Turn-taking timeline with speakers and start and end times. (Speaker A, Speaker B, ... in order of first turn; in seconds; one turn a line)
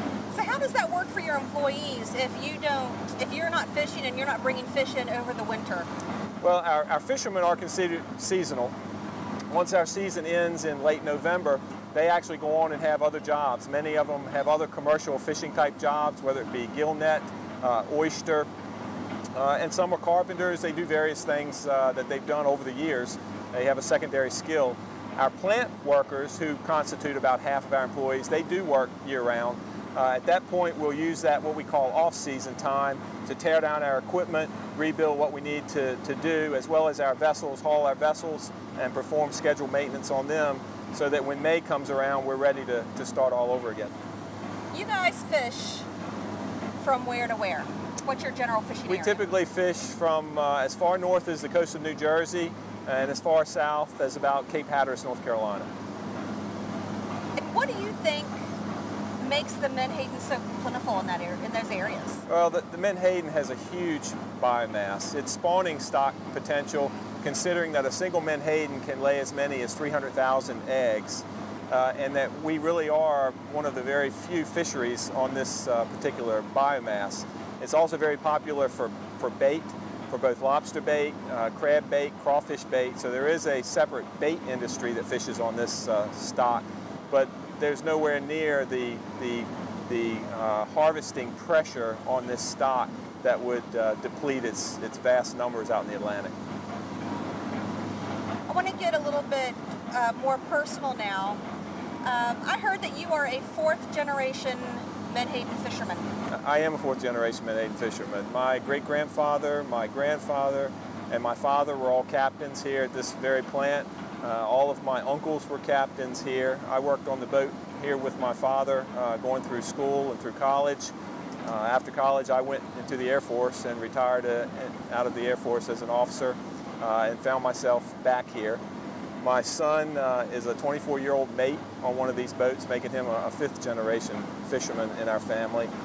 Speaker A: 0.3-5.9
Speaker B: 6.4-8.7
Speaker B: 9.5-18.5
Speaker B: 19.3-43.9
Speaker A: 44.7-45.9
Speaker A: 46.8-49.2
Speaker B: 48.9-55.7
Speaker A: 57.4-58.4
Speaker A: 59.2-62.2
Speaker B: 62.3-96.3
Speaker A: 98.5-101.4
Speaker A: 102.0-106.1
Speaker B: 106.3-120.9
Speaker B: 121.4-128.6
Speaker B: 129.2-135.7